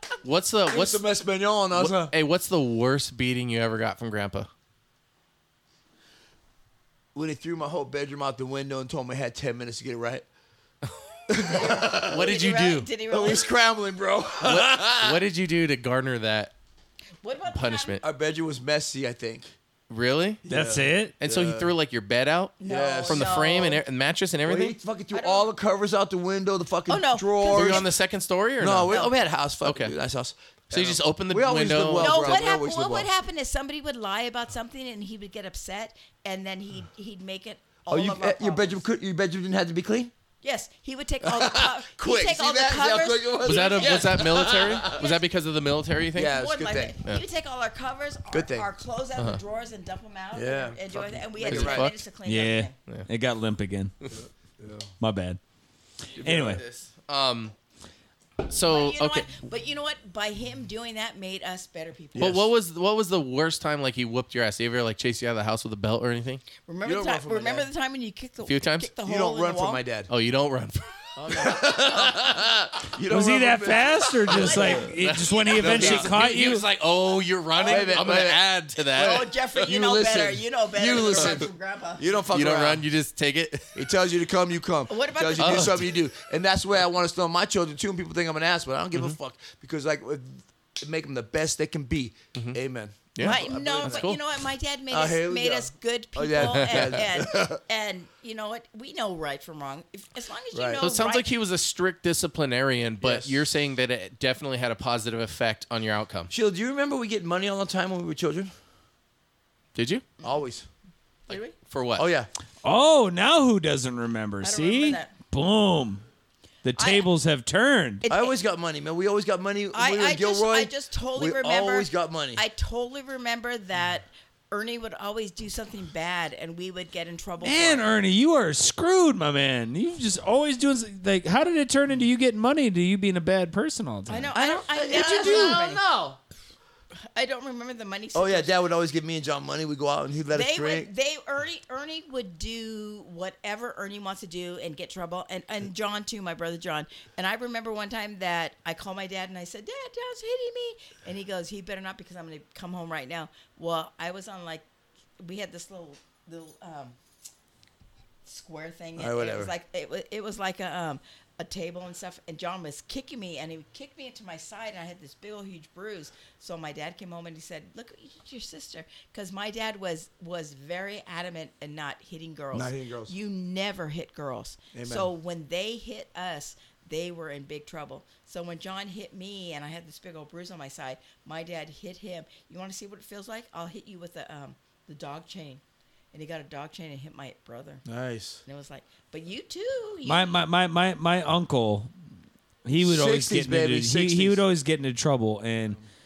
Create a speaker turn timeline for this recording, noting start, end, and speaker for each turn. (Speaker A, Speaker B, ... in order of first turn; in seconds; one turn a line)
Speaker A: 0.2-1.0
Speaker B: 0.7-2.1
Speaker A: 1.7-4.5
Speaker B: 7.2-10.3
Speaker B: 11.3-12.3
Speaker C: 11.5-13.5
Speaker A: 12.0-12.9
Speaker B: 13.1-15.2
Speaker A: 14.4-16.5
Speaker C: 17.2-18.0
Speaker A: 17.5-18.0
Speaker B: 18.0-19.5
Speaker A: 19.9-20.4
Speaker B: 20.4-21.7
Speaker D: 20.5-21.1
Speaker A: 21.2-24.8
Speaker C: 22.6-23.8
Speaker B: 22.6-23.4
Speaker B: 24.4-27.9
Speaker C: 25.1-25.5
Speaker C: 26.9-27.9
Speaker A: 27.5-29.0
Speaker B: 28.6-33.1
Speaker C: 28.9-29.1
Speaker A: 29.6-29.9
Speaker A: 30.7-32.4
Speaker C: 32.0-38.8
Speaker B: 37.9-40.1
Speaker C: 40.4-45.2
Speaker B: 41.2-45.0
Speaker A: 43.4-46.4
Speaker B: 46.1-47.0
Speaker C: 46.3-52.8
Speaker B: 48.3-48.7
Speaker B: 50.3-51.9
Speaker A: 51.4-52.0
Speaker D: 52.2-53.9
Speaker B: 54.1-54.9
Speaker D: 55.0-55.4
Speaker A: 56.2-57.5
Speaker B: 56.2-56.6
Speaker D: 56.2-56.6
Speaker A: 58.5-59.3
Speaker C: 58.7-62.4
Speaker B: 62.1-62.5
Speaker A: 62.2-66.4
Speaker C: 66.7-69.8
Speaker B: 66.8-67.7
Speaker A: 68.5-68.9
Speaker B: 69.0-70.1
Speaker A: 70.1-70.8
Speaker C: 71.2-72.2
Speaker B: 71.3-74.9
Speaker D: 73.1-76.7
Speaker C: 74.3-76.0
Speaker A: 75.0-79.3
Speaker B: 75.6-76.2
Speaker B: 77.6-78.4
Speaker C: 77.7-78.0
Speaker B: 78.9-82.8
Speaker C: 79.0-82.0
Speaker A: 82.3-83.8
Speaker B: 83.8-94.1
Speaker C: 84.9-85.8
Speaker A: 85.4-85.9
Speaker A: 93.2-94.2
Speaker C: 93.2-101.2
Speaker B: 94.9-97.6
Speaker A: 96.4-97.0
Speaker B: 100.5-100.8
Speaker A: 100.8-106.3
Speaker B: 103.0-103.4
Speaker B: 106.3-108.5
Speaker A: 109.8-110.0
Speaker B: 110.2-110.7
Speaker C: 111.3-111.5
Speaker A: 111.3-112.1
Speaker B: 112.0-112.3
Speaker D: 112.6-116.0
Speaker C: 114.4-115.1
Speaker D: 116.6-118.0
Speaker C: 116.8-117.1
Speaker C: 118.0-118.4
Speaker B: 118.1-122.4
Speaker C: 119.7-127.9
Speaker D: 127.4-135.6
Speaker C: 134.1-135.8
Speaker B: 134.3-136.2
Speaker C: 137.0-138.5
Speaker B: 138.1-140.9
Speaker C: 140.3-154.7
Speaker C: 155.2-157.0
Speaker C: 158.2-185.6
Speaker B: 159.0-159.5
Speaker B: 172.5-173.1
Speaker B: 174.7-175.1
Speaker C: 186.1-187.8
Speaker B: 187.9-188.4
Speaker C: 188.4-190.4
Speaker D: 190.1-191.9
Speaker D: 192.7-195.8
Speaker B: 192.8-194.4